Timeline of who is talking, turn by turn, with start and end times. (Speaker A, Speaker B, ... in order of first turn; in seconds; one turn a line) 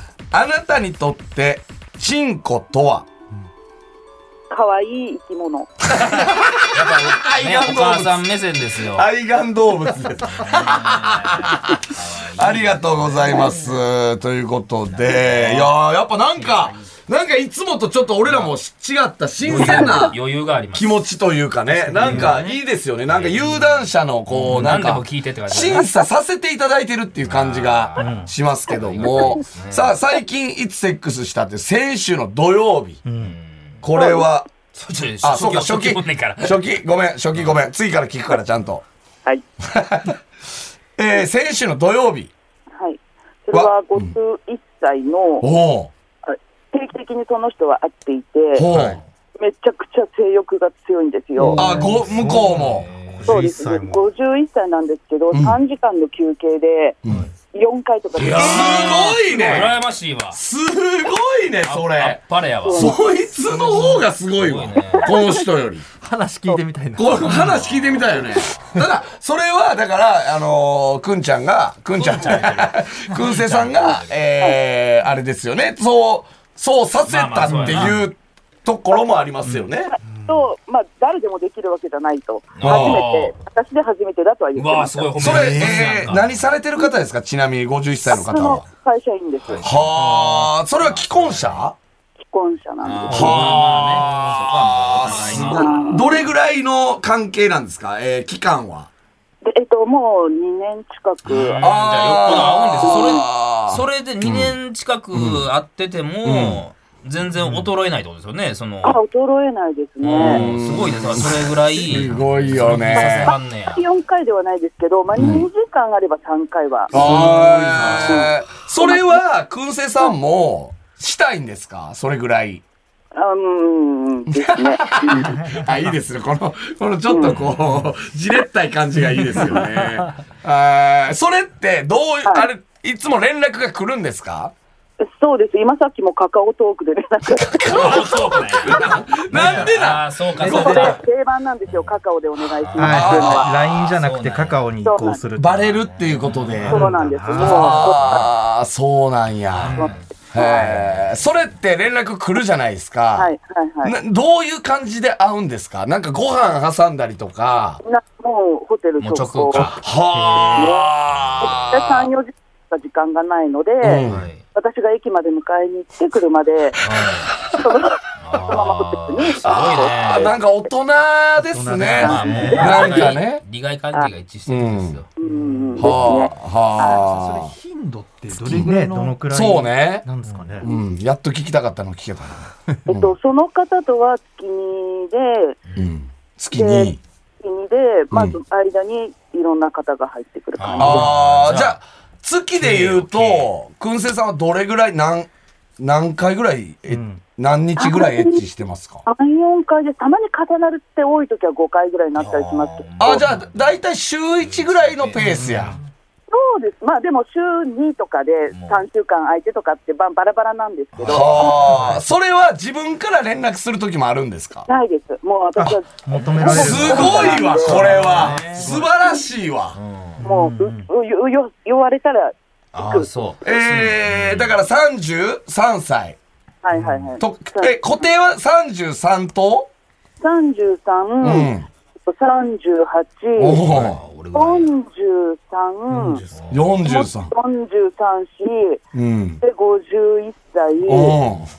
Speaker A: 0.3-3.1
Speaker B: 4.5-5.7
Speaker A: 5.9-20.2
Speaker C: 6.7-9.1
Speaker C: 10.2-13.7
Speaker C: 14.9-15.7
Speaker C: 16.4-16.9
Speaker C: 18.2-18.5
Speaker C: 19.4-21.0
Speaker B: 19.6-20.1
Speaker A: 20.7-33.0
Speaker D: 21.7-22.6
Speaker E: 22.0-22.4
Speaker C: 22.0-22.4
Speaker C: 23.1-25.9
Speaker C: 27.2-29.9
Speaker E: 28.0-28.3
Speaker E: 33.0-33.4
Speaker C: 33.2-33.8
Speaker A: 33.8-34.5
Speaker B: 33.9-34.3
Speaker C: 34.7-36.6
Speaker A: 35.2-38.8
Speaker C: 37.3-37.6
Speaker A: 39.7-40.2
Speaker A: 41.0-42.3
Speaker B: 42.8-45.5
Speaker A: 43.5-44.1
Speaker A: 45.4-45.9
Speaker B: 46.2-48.7
Speaker A: 48.5-49.0
Speaker C: 48.7-49.0
Speaker B: 49.4-51.6
Speaker E: 51.4-54.0
Speaker A: 51.5-52.9
Speaker C: 51.8-53.4
Speaker B: 53.2-57.0
Speaker A: 55.3-55.6
Speaker B: 57.5-59.5
Speaker A: 58.1-59.8
Speaker C: 58.2-60.4
Speaker A: 60.3-65.8
Speaker C: 61.6-65.2
Speaker B: 62.6-63.0
Speaker B: 65.0-65.4
Speaker D: 66.0-67.6
Speaker A: 67.0-79.9
Speaker C: 67.2-68.7
Speaker C: 71.9-74.2
Speaker C: 77.0-78.0
Speaker B: 79.9-85.1
Speaker C: 82.5-83.3
Speaker A: 82.6-83.0
Speaker C: 84.5-86.4
Speaker A: 85.2-88.6
Speaker D: 85.5-85.8
Speaker B: 88.1-89.6
Speaker C: 89.4-89.8
Speaker A: 89.6-91.8
Speaker D: 90.0-90.5
Speaker C: 90.8-91.7
Speaker B: 92.2-93.3
Speaker C: 92.8-95.8
Speaker E: 93.1-93.6
Speaker A: 93.1-98.9
Speaker B: 95.4-96.2
Speaker B: 99.4-103.2
Speaker C: 101.2-109.0
Speaker A: 101.6-104.5
Speaker A: 105.1-105.5
Speaker A: 106.2-106.6
Speaker E: 107.4-107.7
Speaker B: 108.8-110.5
Speaker C: 110.0-113.9
Speaker A: 110.1-113.3
Speaker B: 112.9-119.2
Speaker A: 115.1-115.5
Speaker A: 116.9-122.6
Speaker C: 117.0-118.2
Speaker B: 123.1-125.3
Speaker A: 124.3-134.5
Speaker B: 127.1-127.3
Speaker C: 127.2-127.8
Speaker B: 135.0-138.2
Speaker A: 137.3-141.0
Speaker C: 137.7-141.0
Speaker E: 139.3-139.7
Speaker E: 140.4-140.9
Speaker B: 140.4-143.5
Speaker C: 141.7-142.0
Speaker C: 142.6-144.7
Speaker E: 142.8-145.9
Speaker A: 142.8-143.5
Speaker B: 144.8-145.2
Speaker A: 145.4-157.8
Speaker C: 145.9-147.8
Speaker E: 146.6-148.1
Speaker B: 146.7-148.2
Speaker C: 149.5-151.3
Speaker B: 149.8-150.7
Speaker B: 153.2-153.9
Speaker B: 157.8-159.7
Speaker C: 159.0-159.8
Speaker A: 159.5-162.1
Speaker E: 160.1-160.6
Speaker B: 160.5-164.0
Speaker A: 163.8-164.3
Speaker C: 164.1-164.4
Speaker B: 164.5-166.8
Speaker C: 166.8-167.3
Speaker A: 166.9-167.2
Speaker B: 167.6-170.3
Speaker C: 168.2-170.3
Speaker A: 169.4-173.4
Speaker E: 171.4-172.8
Speaker C: 172.0-175.1
Speaker B: 172.0-173.2
Speaker A: 174.5-175.0
Speaker B: 175.2-177.0
Speaker D: 175.2-175.9
Speaker A: 175.8-177.5
Speaker D: 176.9-179.3
Speaker A: 178.3-178.7
Speaker E: 178.5-180.7
Speaker A: 179.3-180.1
Speaker D: 180.2-180.7
Speaker A: 180.6-183.1
Speaker B: 182.9-185.6
Speaker A: 185.8-187.0
Speaker B: 186.5-191.1
Speaker A: 188.1-188.4
Speaker C: 190.6-191.8
Speaker A: 190.8-199.0
Speaker C: 192.6-193.5
Speaker E: 196.9-197.2
Speaker B: 197.8-198.4
Speaker B: 199.1-203.2
Speaker C: 202.2-203.8
Speaker A: 203.0-205.8
Speaker C: 204.4-205.6
Speaker E: 205.2-205.8
Speaker B: 206.3-211.5
Speaker C: 208.5-208.8
Speaker C: 210.9-212.0
Speaker A: 211.1-214.7
Speaker E: 211.6-212.0
Speaker B: 214.7-217.8
Speaker E: 215.6-218.8
Speaker C: 216.1-218.8
Speaker A: 216.4-219.8
Speaker C: 219.7-220.2
Speaker E: 220.2-220.9
Speaker B: 220.2-223.1
Speaker C: 222.7-224.6
Speaker A: 223.4-226.2
Speaker B: 226.6-228.0
Speaker A: 227.2-229.7
Speaker B: 230.2-231.5
Speaker A: 231.2-231.7
Speaker B: 232.1-233.6
Speaker A: 233.3-234.0
Speaker C: 233.7-234.7
Speaker B: 234.3-236.2
Speaker E: 235.9-236.5
Speaker C: 236.3-236.7
Speaker A: 236.5-237.3
Speaker B: 236.8-238.8
Speaker A: 238.9-239.4
Speaker B: 239.4-241.2
Speaker A: 240.8-241.5